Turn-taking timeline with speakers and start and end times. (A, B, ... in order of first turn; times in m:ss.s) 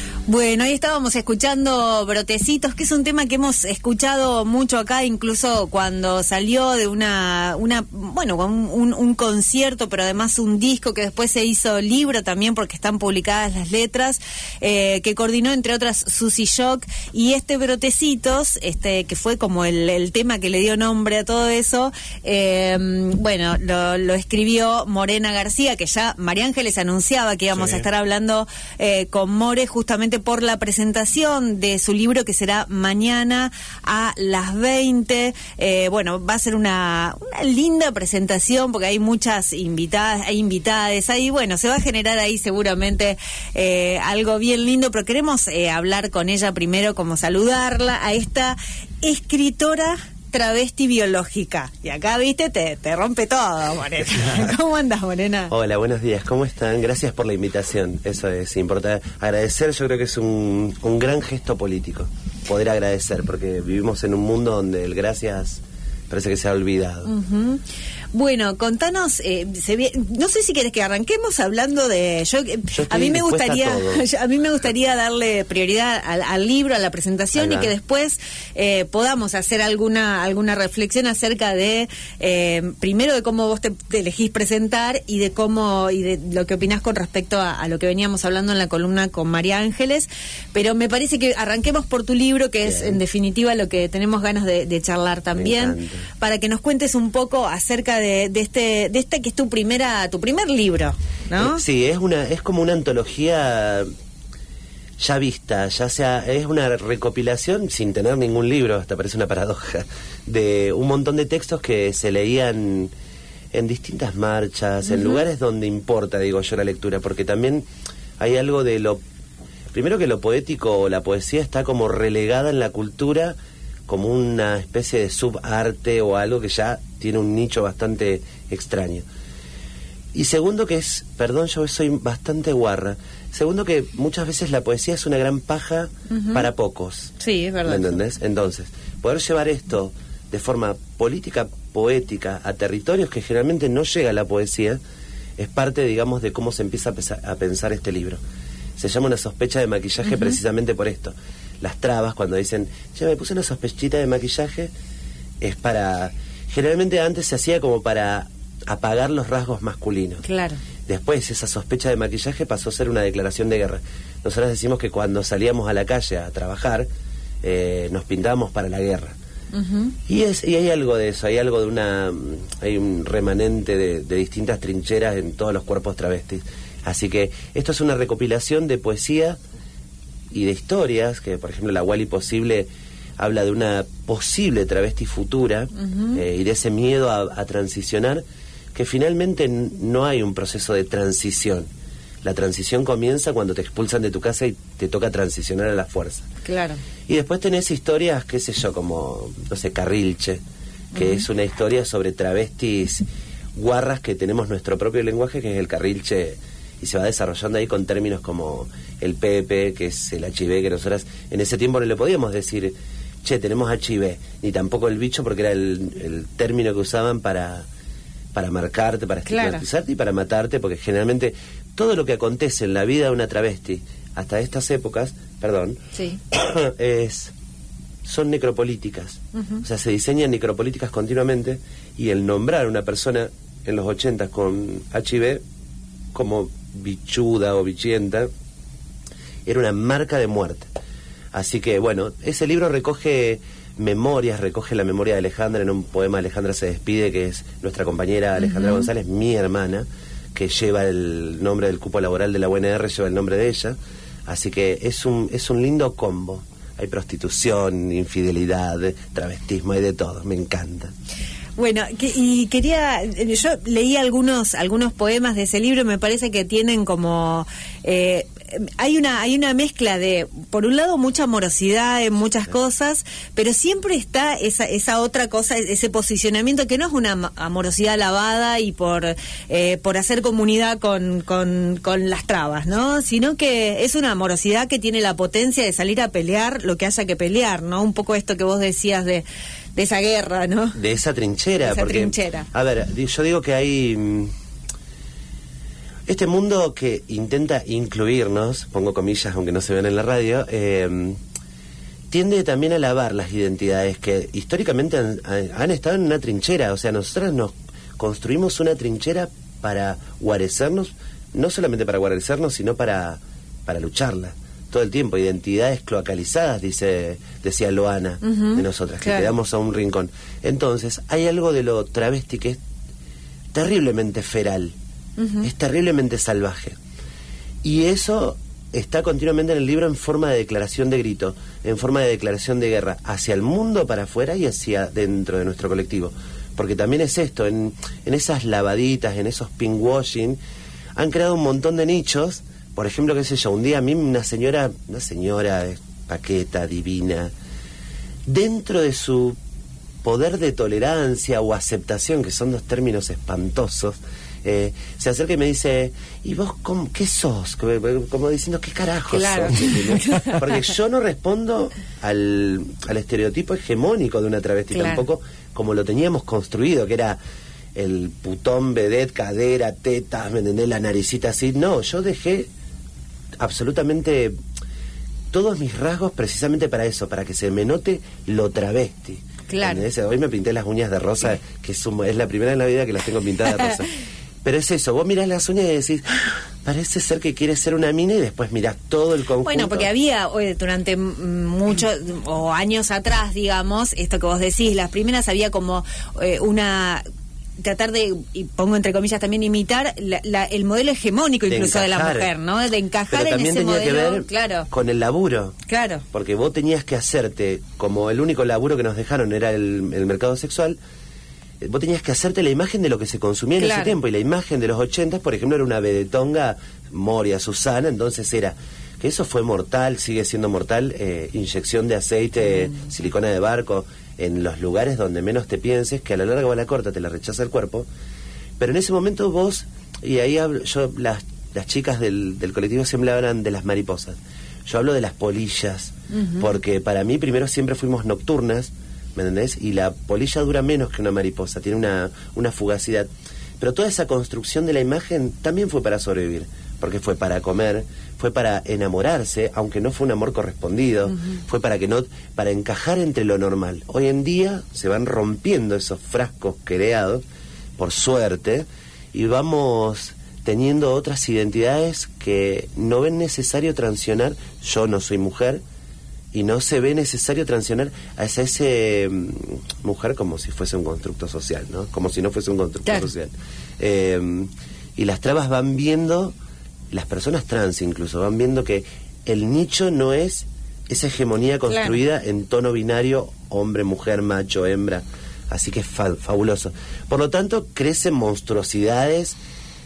0:00.3-0:55.5 A
0:55.5-1:07.1 B
1:07.0-1:07.6 A
1:08.1-1:41.6 A
1:12.7-1:14.0 B
1:17.3-1:17.7 B
1:32.6-1:33.0 B
1:35.3-1:36.1 B
1:41.3-1:43.9 B
1:45.0-1:52.9 B
1:53.5-1:57.7 B
1:54.9-1:55.2 A
1:58.2-1:59.0 B
1:59.7-2:03.4 B
2:03.9-2:09.0 B
2:10.1-2:17.1 B
2:16.1-2:16.5 A
2:17.2-2:18.0 A
2:17.6-2:24.8 B
2:25.4-2:28.2 B
2:28.8-2:34.7 B
2:30.0-2:30.4 A
2:35.4-2:40.2 B
2:40.2-2:40.6 A
2:40.9-2:46.9 B
2:47.4-2:49.2 B
2:49.5-2:49.9 A
2:50.1-2:59.4 B
3:00.3-3:11.7 B
3:05.8-3:06.2 A
3:12.2-3:16.3 B
3:16.4-3:16.8 A
3:17.1-3:20.4 B
3:20.9-3:21.3 A
3:20.9-3:37.7 B
3:38.3-3:45.8 B
3:39.2-3:39.6 A
3:45.9-3:46.2 A
3:46.3-3:47.3 B
3:48.0-3:55.4 B
3:49.3-3:49.6 A
3:56.1-3:58.3 B
3:59.4-4:00.7 B
4:01.3-4:20.9 B
4:08.4-4:08.9 A
4:21.6-4:50.8 A
4:50.8-4:54.3 B
4:51.6-4:52.5 A
4:56.1-5:01.2 B
5:02.1-5:22.6 B
5:18.2-5:19.3 A
5:23.5-5:24.7 B
5:25.2-5:25.5 A
5:25.4-5:26.8 B
5:27.6-5:40.4 B
5:41.0-5:47.3 B
5:48.2-5:49.4 B
5:50.0-6:07.2 B
5:59.1-6:00.5 A
6:04.7-6:05.0 A
6:07.7-6:12.5 B
6:13.4-6:14.4 B
6:15.3-6:23.9 B
6:19.5-6:19.9 A
6:24.4-6:29.9 B
6:29.4-6:37.0 A
6:37.6-6:44.7 A
6:41.5-6:42.3 B
6:43.1-6:45.6 B
6:45.7-6:46.0 A
6:46.1-6:50.8 B
6:51.6-7:07.9 B
6:53.6-6:53.9 A
7:08.6-7:23.1 B
7:16.1-7:16.6 A
7:23.6-7:37.2 B
7:37.8-7:45.6 B
7:46.3-7:56.4 B
7:56.9-8:09.4 B
8:01.7-8:02.0 A